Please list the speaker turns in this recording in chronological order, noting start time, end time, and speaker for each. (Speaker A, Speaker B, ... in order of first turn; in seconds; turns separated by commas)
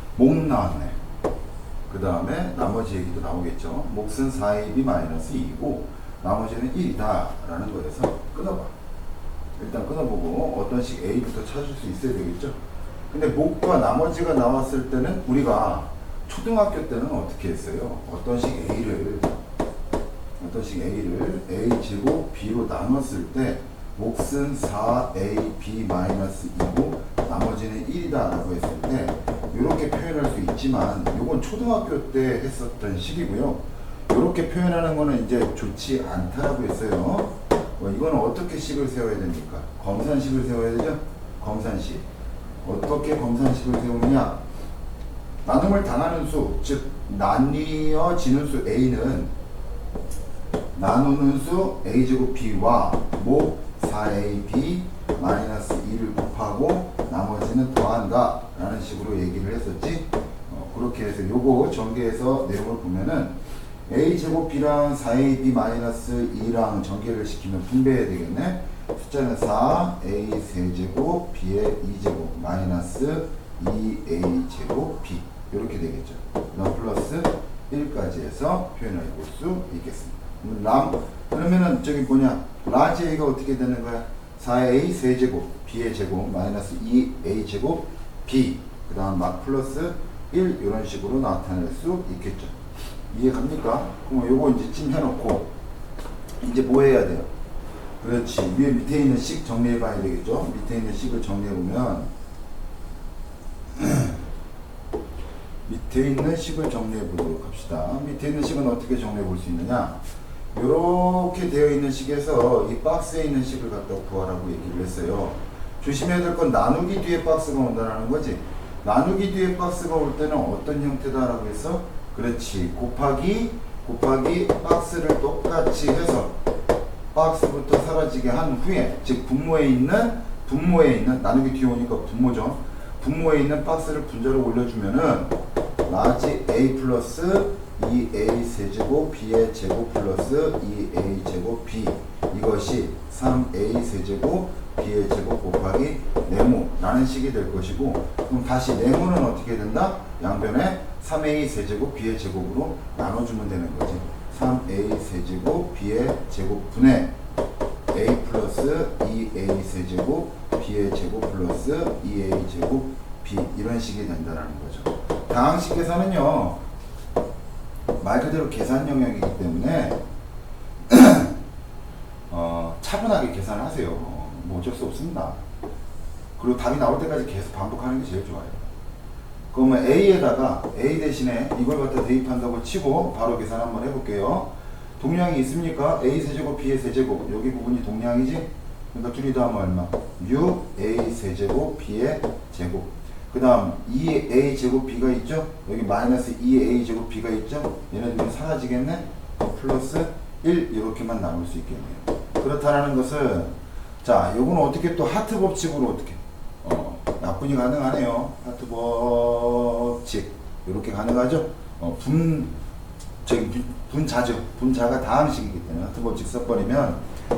Speaker A: 0.1-1.0, Speaker A: 1.9-8.7, Speaker A: 9.6-12.6, Speaker A: 13.1-19.4, Speaker A: 20.4-42.0, Speaker A: 42.6-44.4, Speaker A: 45.5-49.3, Speaker A: 50.7-63.4, Speaker A: 63.9-92.6, Speaker A: 93.1-95.5, Speaker A: 96.4-97.3, Speaker A: 98.0-102.1, Speaker A: 103.8-104.2, Speaker A: 105.7-110.0, Speaker A: 110.5-126.4, Speaker A: 127.1-135.3, Speaker A: 135.9-157.1, Speaker A: 157.9-166.6, Speaker A: 168.0-170.0, Speaker A: 170.9-171.3, Speaker A: 172.3-175.4, Speaker A: 176.4-178.7, Speaker A: 179.5-212.5, Speaker A: 213.2-217.0